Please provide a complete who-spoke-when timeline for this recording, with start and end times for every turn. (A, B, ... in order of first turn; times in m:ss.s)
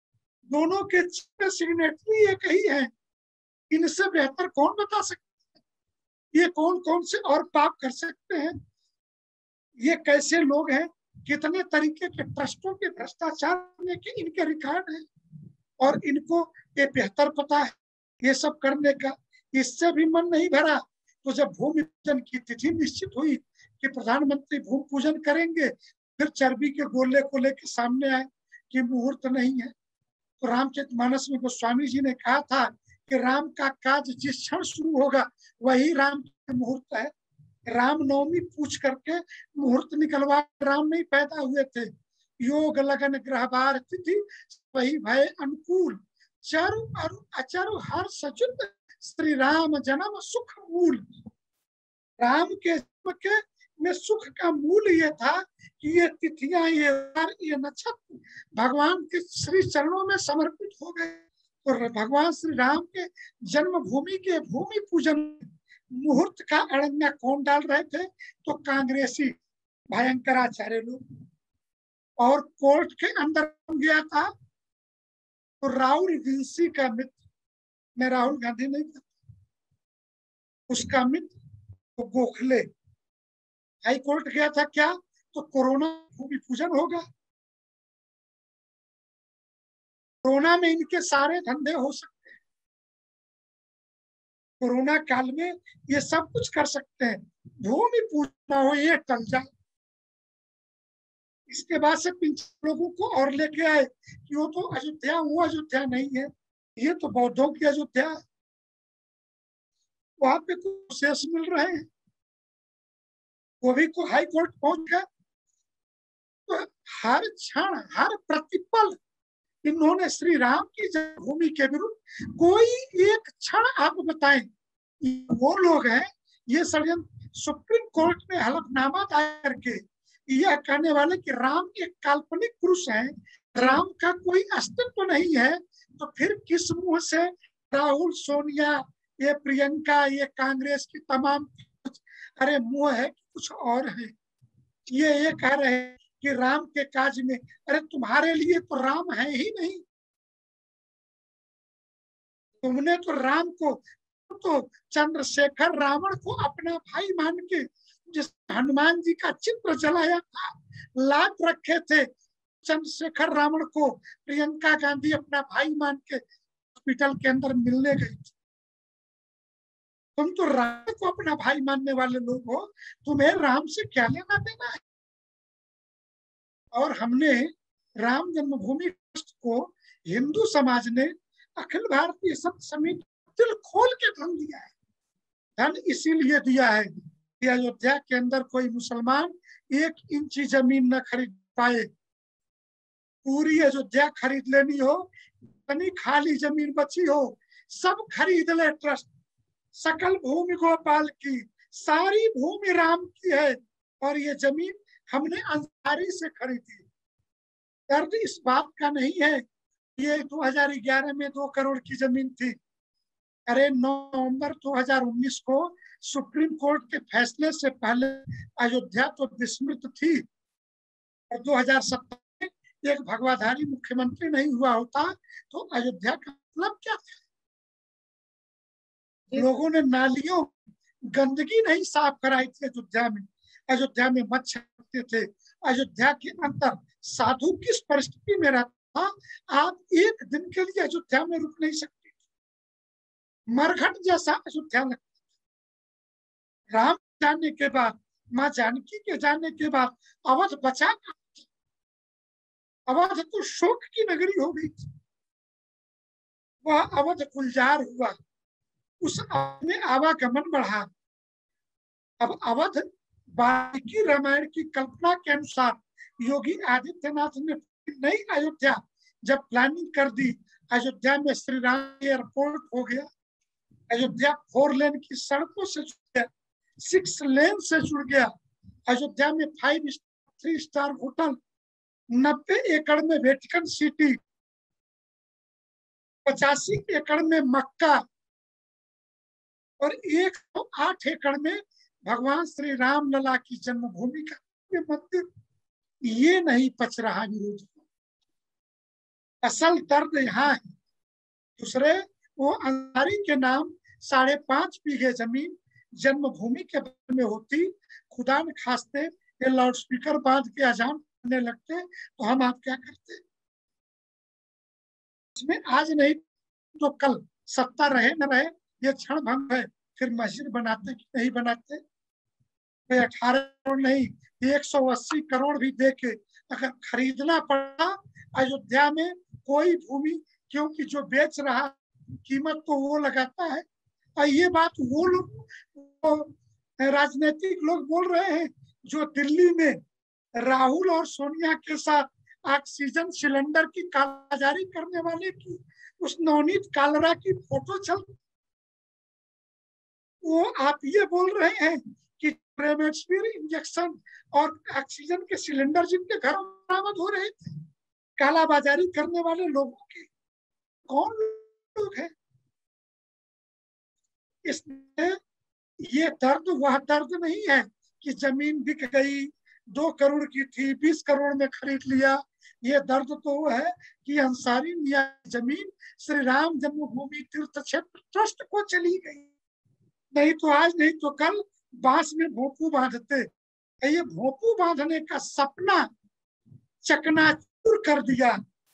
0:00.5-0:02.9 A
0:03.7-0:05.4 A
0:06.3-0:08.6 A
0:09.8-0:15.1 A
0:15.8-0:29.7 A
0:30.4-0:37.1 A
0:37.7-0:51.2 A
0:52.2-1:09.3 A
1:09.9-1:11.0 A
1:12.2-1:14.3 A
1:15.6-1:17.2 A
1:18.0-1:19.2 A
1:20.7-1:21.4 A
1:22.0-1:22.7 A
1:23.8-1:27.0 A
1:30.2-1:32.4 A
1:34.6-1:39.5 A
1:41.5-1:48.2 A
1:50.2-1:51.9 A
1:53.6-1:55.0 A
1:56.5-1:59.0 A
1:59.6-2:04.5 A
2:05.0-2:24.2 A
2:24.9-2:29.8 A
2:32.6-2:42.1 A
2:42.6-2:46.2 A
2:46.8-2:48.3 A
2:50.2-2:54.8 A
2:56.7-3:04.7 A
3:05.6-3:11.9 A
3:13.2-3:19.1 A
3:19.8-3:26.9 A
3:27.9-3:29.4 A
3:30.0-3:32.6 A
3:33.5-3:40.2 A
3:41.3-3:47.2 A
3:49.4-3:50.5 A
3:51.1-4:02.1 A
4:03.5-4:05.1 A
4:06.7-4:11.4 A
4:12.9-4:14.9 A
4:16.6-4:18.2 A
4:19.0-4:20.9 A
4:22.2-4:33.1 A
4:33.9-4:38.3 A
4:38.9-4:41.4 A
4:42.1-4:44.2 A
4:46.3-4:48.0 A
4:49.8-4:55.3 A
4:56.0-4:57.8 A
4:59.4-5:00.7 A
5:01.6-5:13.2 A
5:15.4-5:16.2 A
5:16.8-5:21.8 A
5:22.9-5:33.7 A
5:34.2-5:39.8 A
5:40.4-5:48.2 A
5:50.2-5:57.7 A
5:58.2-6:00.1 A
6:00.9-6:02.1 A
6:04.5-6:05.2 A
6:05.8-6:19.3 A
6:20.2-6:23.3 A
6:23.8-6:25.9 A
6:26.9-6:28.4 A